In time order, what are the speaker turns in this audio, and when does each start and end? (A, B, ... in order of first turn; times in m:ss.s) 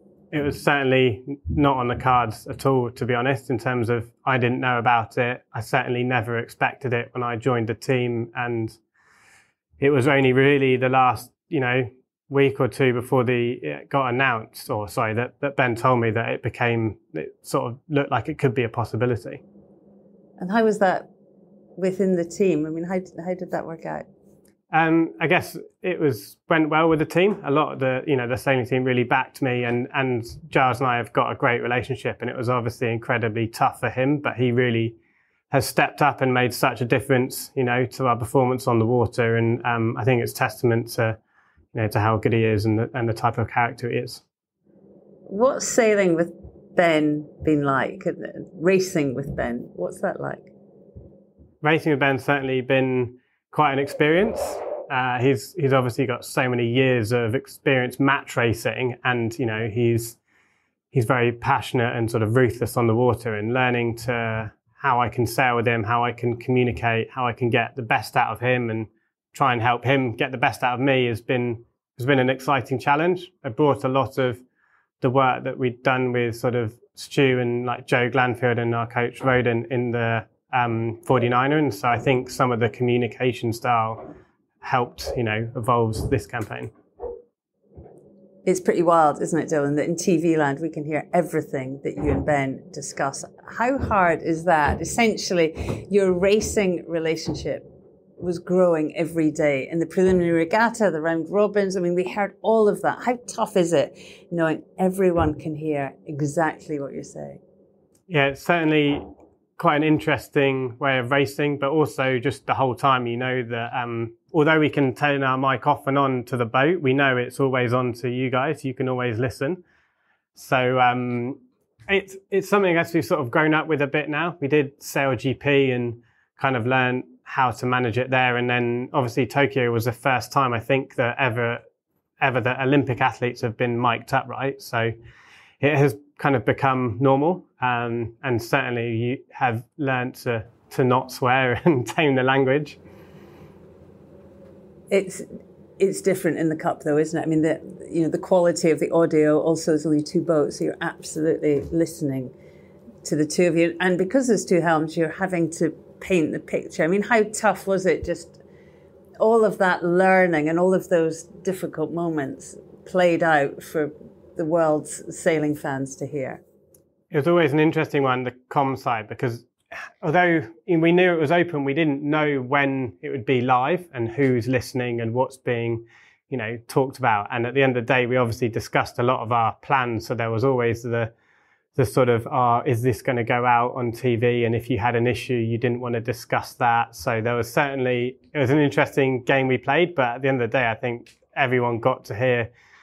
0:00.3-0:08.8 A
0:09.8-0:19.4 A
0:20.4-0:21.1 B
0:21.8-0:24.0 B
0:24.7-0:35.0 A
0:35.5-0:41.2 A
0:41.7-0:44.2 A
0:45.3-0:50.5 B
0:51.6-1:00.2 A
1:00.9-1:14.4 A
1:15.0-1:26.7 A
1:28.4-1:47.4 B
1:48.1-1:59.6 A
2:00.4-2:11.6 A
2:12.2-2:14.9 A
2:15.6-2:22.8 A
2:24.9-2:25.3 B
2:25.8-2:32.3 B
2:33.0-2:38.4 B
2:39.2-2:46.4 B
2:47.1-3:01.1 A
3:01.8-3:12.5 A